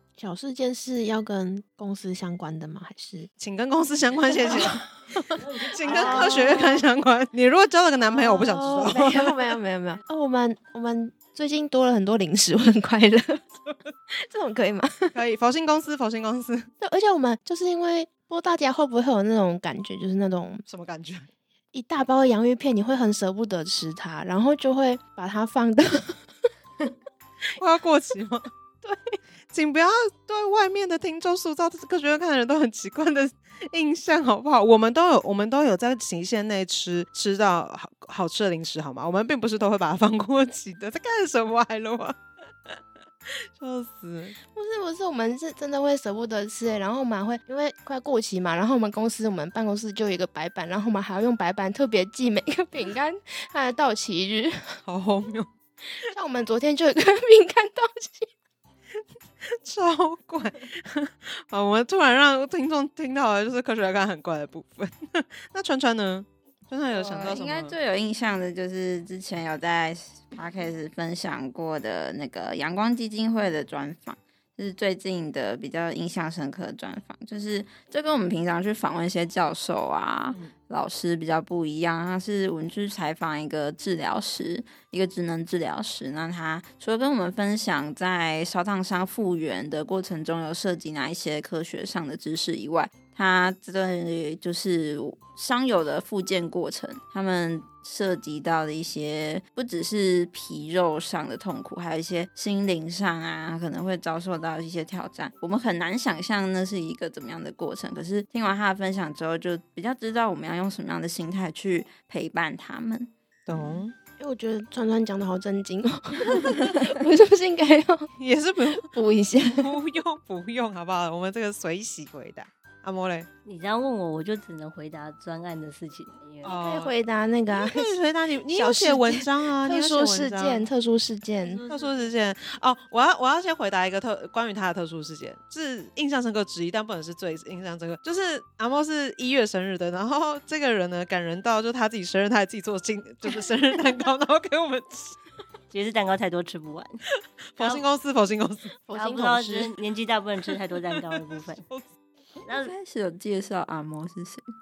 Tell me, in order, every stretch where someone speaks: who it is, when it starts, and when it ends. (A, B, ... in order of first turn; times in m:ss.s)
0:00.2-0:03.3 A
0:03.4-0:04.8 B
0:04.4-0:04.8 A
0:05.4-0:06.6 C
0:05.7-0:09.5 B
0:05.8-0:06.9 A
0:08.1-0:13.6 A
0:14.2-0:15.2 A
0:15.1-0:16.7 B
0:16.8-0:20.6 A
0:20.7-0:21.3 B
0:21.7-0:26.3 A
0:27.6-0:28.5 B
0:29.5-0:42.2 B
0:43.6-0:44.4 B
0:44.5-0:54.8 A
0:54.8-0:55.5 B
0:56.0-0:58.3 A
0:59.6-1:07.8 B
1:06.9-1:53.1 D
1:53.5-1:53.9 B
1:54.2-1:58.1 A
1:58.2-1:58.9 B
1:58.8-1:59.7 A
1:59.6-2:03.3 B
2:03.4-2:06.6 C
2:06.4-2:06.9 B
2:06.5-2:07.9 A
2:07.5-2:10.7 B
2:08.5-2:11.6 A
2:11.4-2:11.9 C
2:11.7-2:25.2 B
2:25.7-2:27.0 C
2:27.6-2:28.7 B
2:27.6-2:27.8 C
2:28.9-2:29.7 A
2:28.9-2:31.6 C
2:32.5-2:32.7 C
2:32.5-2:34.5 D